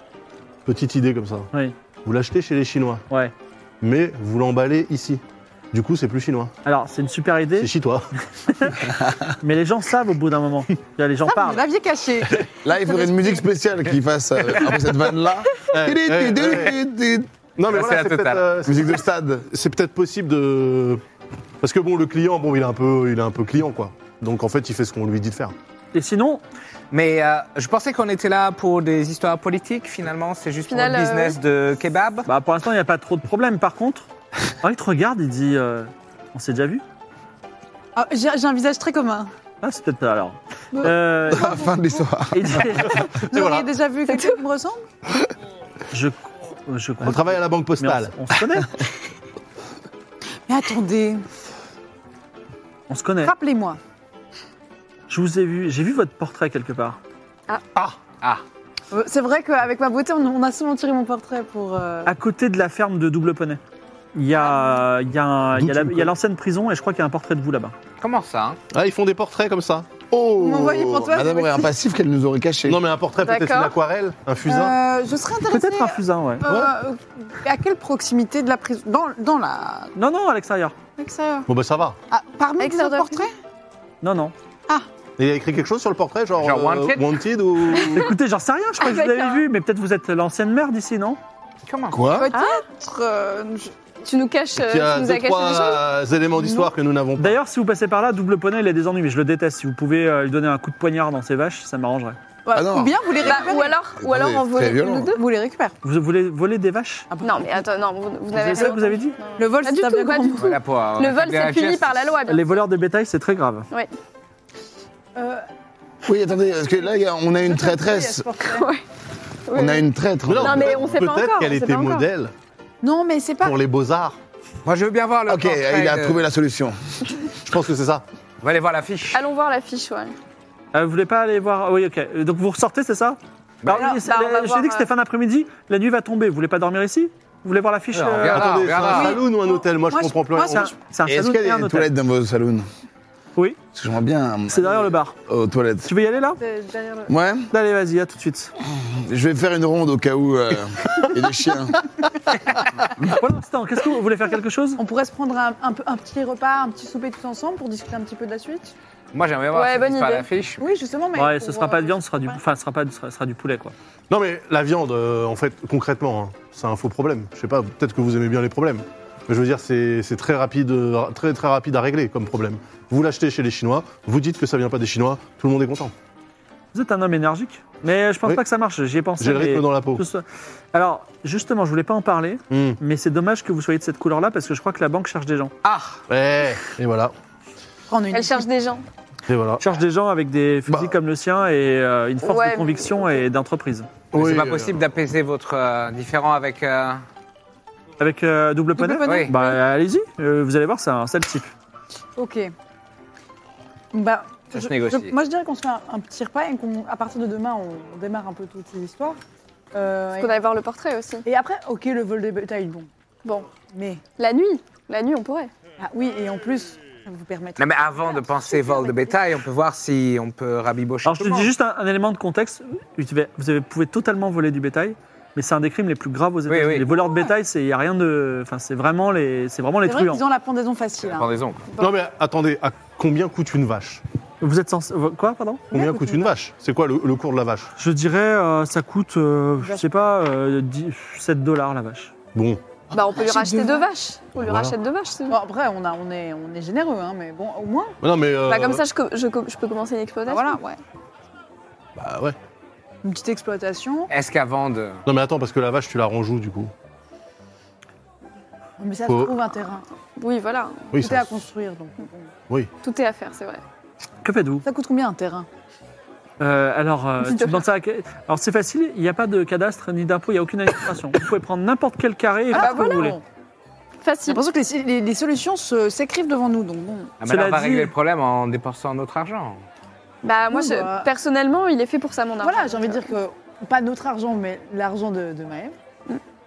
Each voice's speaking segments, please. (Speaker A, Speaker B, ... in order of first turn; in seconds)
Speaker A: 0.6-1.5, 2.0-3.0, 3.8-6.5, 7.6-8.1, 15.7-16.8, 17.6-21.0, 21.6-25.6, 43.3-43.7, 47.0-48.1, 65.5-66.1, 68.7-69.9, 72.7-74.8, 76.5-76.8, 81.5-82.0, 85.2-88.1, 94.6-97.4, 120.2-122.3, 123.4-124.2, 127.4-128.1, 138.2-140.7, 164.1-175.9, 179.2-180.1, 182.5-182.8, 186.1-187.1, 189.3-189.6, 194.1-194.8, 231.8-234.0, 235.7-237.7, 242.3-242.6, 244.3-244.8, 248.0-248.8, 252.0-252.4, 255.1-256.7, 259.1-259.4, 260.9-261.3
Speaker B: 6.6-7.7, 8.3-11.6, 25.9-26.4, 32.2-34.1, 34.6-36.8, 39.6-41.7, 42.3-43.0, 45.9-48.7, 52.9-53.3, 55.1-57.0, 62.1-63.6, 64.1-67.8, 75.5-76.5, 80.0-80.8, 84.0-84.3, 87.9-91.2, 97.2-102.2, 105.8-107.1, 108.3-109.2, 112.2-113.7, 130.7-138.5, 140.5-141.9, 144.5-145.1, 145.9-146.4, 147.5-148.5, 153.1-154.8, 161.1-163.8, 176.7-185.5, 189.6-193.9, 198.0-201.5, 221.0-230.2, 234.4-235.7, 237.8-242.1, 264.2-264.6, 266.4-273.2, 277.2-277.9
Speaker C: 11.3-13.5, 37.9-39.3, 40.7-42.0, 43.1-44.8, 50.5-51.2, 53.2-53.8, 58.9-62.1, 70.4-71.7, 74.5-79.9, 81.0-81.5, 82.1-83.3, 92.1-93.7, 96.4-96.7, 102.4-103.8, 105.1-105.8, 107.1-107.7, 109.4-110.6, 115.2-115.4, 116.4-118.7, 122.8-123.6, 133.7-134.0, 138.9-140.7, 146.4-147.1, 154.8-158.7, 160.6-162.4, 187.9-188.5, 198.8-199.6, 202.2-202.5, 203.9-209.2, 209.7-210.5, 211.2-212.9, 213.6-214.0, 215.8-219.2, 229.8-231.3, 235.7-236.3, 239.6-240.1, 243.1-243.9, 245.3-248.0, 250.3-250.8, 253.0-254.1, 258.8-259.9, 261.0-262.3, 264.6-265.5, 272.5-273.2, 274.2-277.1, 280.5-281.1, 282.4-285.8
Speaker D: 12.6-17.3, 18.7-19.4, 41.3-42.8, 70.1-72.8, 91.9-92.3, 102.5-105.1, 116.0-118.2, 119.5-121.0, 125.3-126.8, 141.1-142.7, 143.7-145.9, 147.1-147.5, 148.6-151.9
Speaker E: 17.7-18.4, 26.9-32.3, 68.0-68.6, 86.4-87.1, 91.7-92.0, 110.4-112.1, 124.6-126.2, 128.4-129.2, 137.9-139.2, 159.1-160.6, 185.6-186.0, 194.1-197.0, 199.0-199.3, 204.5-205.2, 217.6-221.5, 226.5-226.9, 231.0-231.7, 254.1-255.0, 277.2-279.6
Speaker F: 30.7-31.4, 44.1-44.4, 73.2-73.7, 82.6-83.2, 88.8-89.4, 92.3-92.6, 94.0-95.9, 103.2-105.2, 107.2-112.5, 118.5-118.8, 119.5-122.1, 129.1-130.1, 133.8-134.9, 159.5-160.3, 188.1-188.8, 192.2-193.1, 210.2-211.2, 213.2-213.5, 214.2-215.5, 242.9-245.4, 248.5-250.6, 260.2-260.9, 262.8-263.6, 267.2-267.6, 272.5-273.1, 274.0-274.4, 280.2-283.0